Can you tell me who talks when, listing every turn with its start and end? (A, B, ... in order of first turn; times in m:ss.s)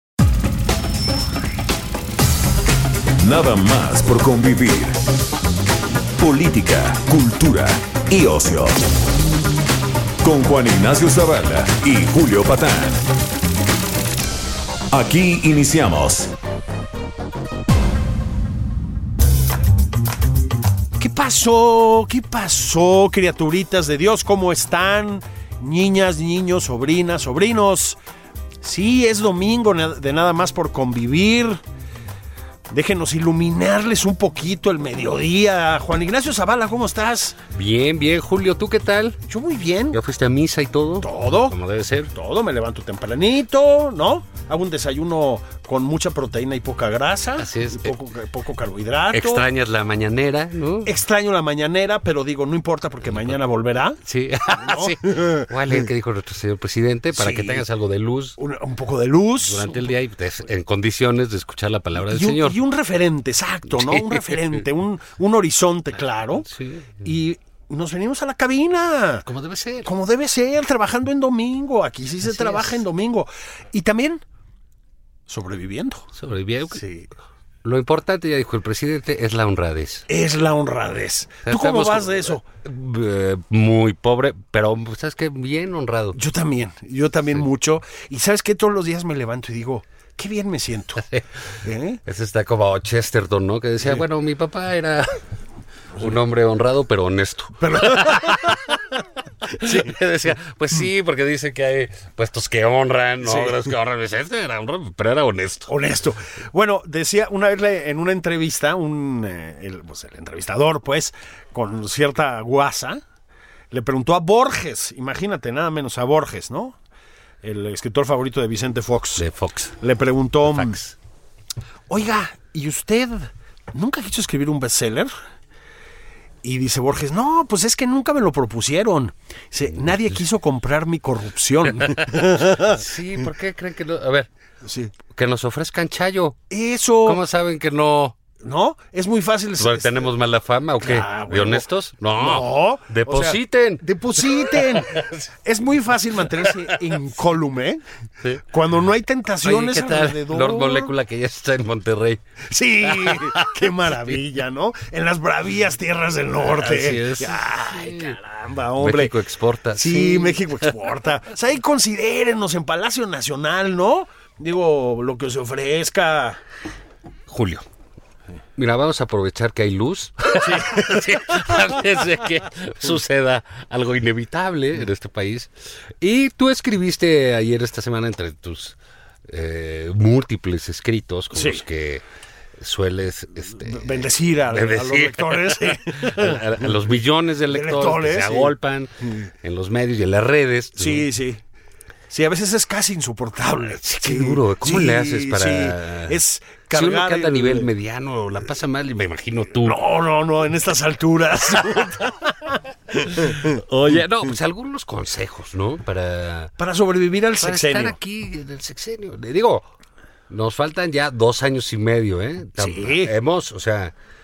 0:03.2-0:05.1 A
0:06.2-0:08.8 A
0:10.2-0:13.0 A
0:14.9-0:16.3 A
0:21.0-0:28.0 B
0:28.6-0:31.6 B
0:32.7-0:37.4 B
0:37.5-0:39.2 C
0:39.3-0:40.0 B
0:39.9-0:42.1 C
0:41.0-0:41.6 B
0:42.1-0:49.5 B
0:47.4-0:48.0 C
0:49.1-0:50.9 C
0:50.8-0:55.9 B
0:54.0-0:58.4 C
0:57.1-0:57.7 B
0:58.4-0:59.9 B
0:59.4-1:02.6 C
1:02.1-1:06.5 B
1:03.7-1:04.6 C
1:06.4-1:07.0 C
1:07.0-1:09.3 B
1:09.3-1:09.9 C
1:09.8-1:14.2 B
1:12.2-1:12.8 C
1:15.3-1:16.1 B
1:16.2-1:16.8 C
1:16.7-1:17.1 B
1:17.6-1:20.1 C
1:20.1-1:22.4 B
1:21.4-1:26.2 C
1:26.1-1:31.0 B
1:31.6-1:32.0 B
1:32.0-1:35.2 C
1:36.0-1:38.7 C
1:37.6-1:38.8 B
1:39.5-1:45.7 C
1:39.6-1:40.0 B
1:43.2-1:43.7 B
1:45.7-1:53.0 B
1:53.7-1:56.8 B
1:57.4-1:59.3 B
1:59.2-1:59.8 C
1:59.8-2:00.8 B
2:00.5-2:00.9 C
2:01.9-2:05.1 B
2:06.4-2:12.8 B
2:12.5-2:14.3 C
2:14.6-2:14.9 B
2:15.1-2:16.4 C
2:16.5-2:17.2 B
2:17.0-2:18.2 C
2:18.4-2:20.1 B
2:19.6-2:25.2 C
2:20.8-2:27.8 B
2:26.4-2:26.9 C
2:28.5-2:30.9 B
2:29.4-2:32.2 C
2:32.5-2:39.1 B
2:32.9-2:33.9 C
2:36.4-2:38.2 C
2:38.8-2:40.7 C
2:39.8-2:46.4 B
2:47.3-2:47.6 C
2:48.6-2:58.8 C
2:50.4-2:51.8 B
2:59.3-3:02.0 C
3:01.3-3:01.6 B
3:02.6-3:03.9 C
3:03.6-3:06.8 B
3:04.5-3:08.9 C
3:07.5-3:08.5 B
3:09.4-3:11.0 C
3:10.8-3:11.4 B
3:12.1-3:17.7 B
3:13.8-3:16.2 C
3:16.7-3:19.8 C
3:19.6-3:24.3 B
3:23.1-3:26.5 C
3:26.6-3:28.0 B
3:27.4-3:29.7 C
3:30.3-3:33.9 C
3:32.6-3:33.2 B